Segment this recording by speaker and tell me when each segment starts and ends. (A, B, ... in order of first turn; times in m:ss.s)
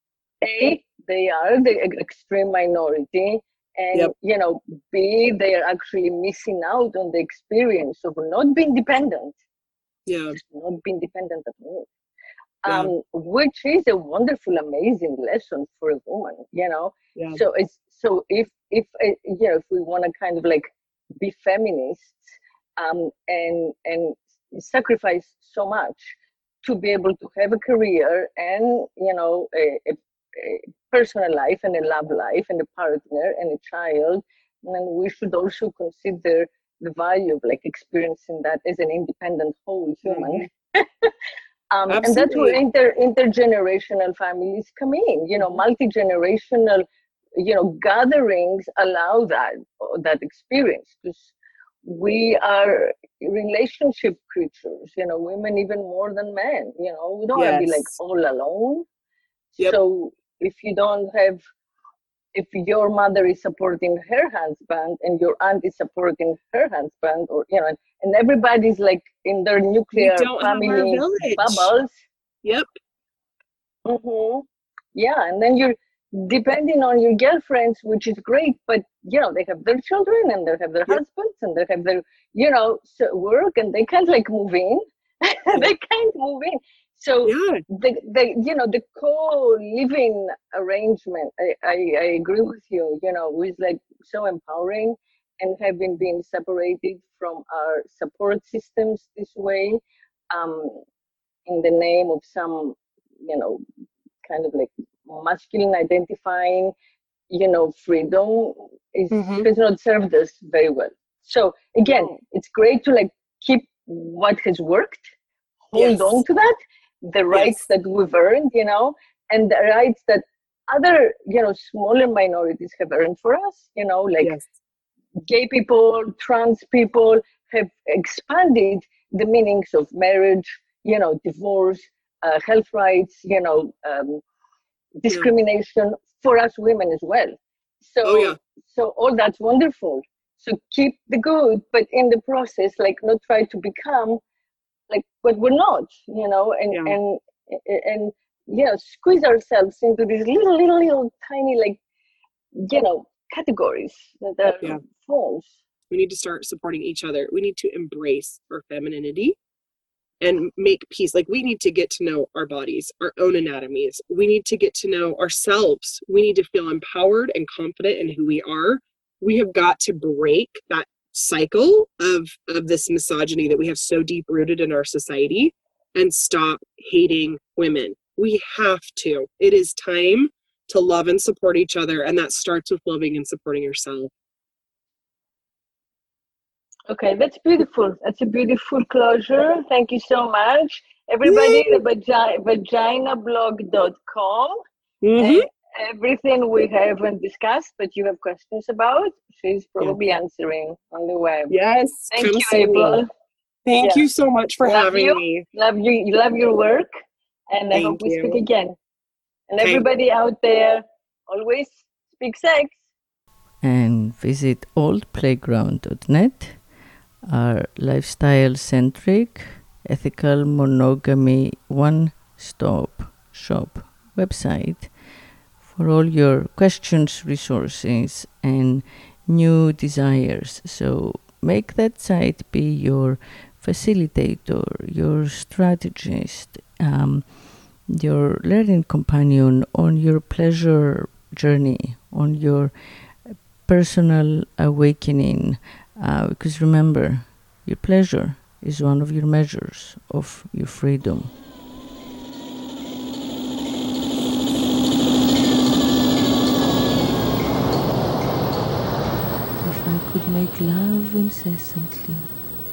0:00.4-0:09.3 A
0:10.0-0:10.4 B
0:10.3-0:11.9 A
0:12.6-0:20.7 A
0:12.6-0:12.9 B
0:17.1-0:17.4 B
0:21.2-0:22.2 A
0:22.8-0:41.1 A
0:40.0-0:40.5 B
0:41.7-0:46.8 A
0:41.9-0:42.6 B
0:47.4-0:51.3 A
0:51.8-0:58.8 A
0:57.3-0:57.9 B
0:59.6-1:01.4 A
1:02.3-1:11.9 A
1:10.0-1:11.7 B
1:13.8-1:39.8 A
1:27.2-1:27.6 B
1:40.3-1:40.8 A
1:41.4-1:43.6 A
1:44.2-1:46.7 A
1:47.3-1:55.1 A
1:49.1-1:49.5 B
1:51.8-1:52.2 B
1:55.7-2:04.3 A
1:55.7-1:56.2 B
1:57.3-1:57.6 B
2:05.2-2:14.2 A
2:15.0-2:24.2 A
2:18.0-2:18.4 B
2:24.9-2:31.8 A
2:26.7-2:27.0 B
2:32.6-2:35.5 A
2:35.9-2:39.4 B
2:40.2-3:04.1 B
3:06.9-3:14.6 A
3:11.2-3:11.8 B
3:15.0-3:15.4 B
3:15.2-3:21.6 A
3:21.5-3:23.0 B
3:22.1-3:23.1 A
3:23.6-3:25.4 B
3:23.8-3:24.0 A
3:24.6-3:26.9 A
3:27.5-3:28.7 A
3:27.7-3:28.4 B
3:29.5-3:32.8 A
3:33.6-3:36.7 C
3:37.2-3:45.0 C
3:45.6-4:11.4 C
4:19.6-4:22.4 C